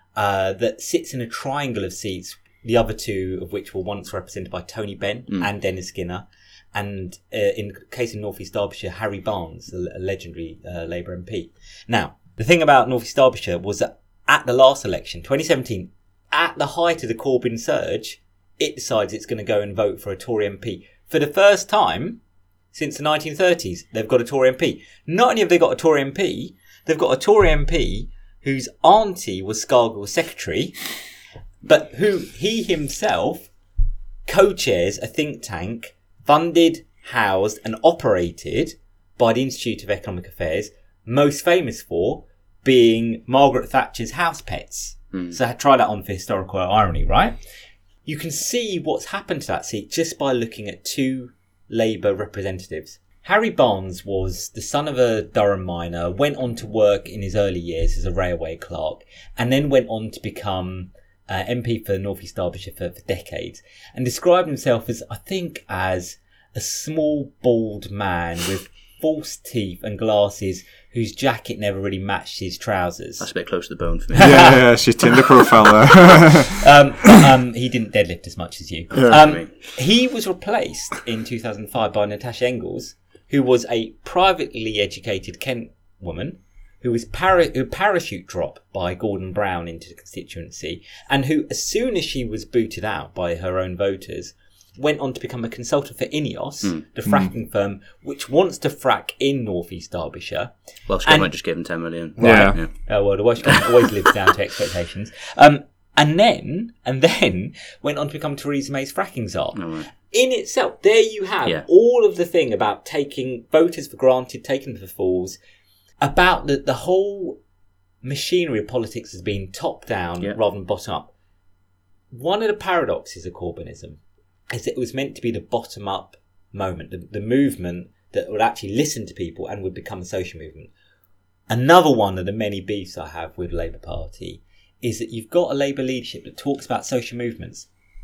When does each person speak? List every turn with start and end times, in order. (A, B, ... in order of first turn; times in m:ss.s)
0:00.2-0:22.2 A
0:22.7-0:30.8 A
0:31.6-0:33.5 A
0:34.2-0:47.4 A
0:48.0-1:13.3 A
1:13.2-1:14.6 B
1:14.2-1:15.2 A
1:14.2-1:16.6 C
1:16.4-1:40.5 A
1:19.0-1:19.5 B
1:40.9-1:42.7 B
1:41.0-1:41.3 A
1:42.2-1:55.4 A
1:42.2-1:42.6 C
1:49.5-1:49.9 B
1:56.0-1:57.4 A
1:58.0-2:01.1 A
2:02.1-2:10.7 A
2:11.5-2:17.7 A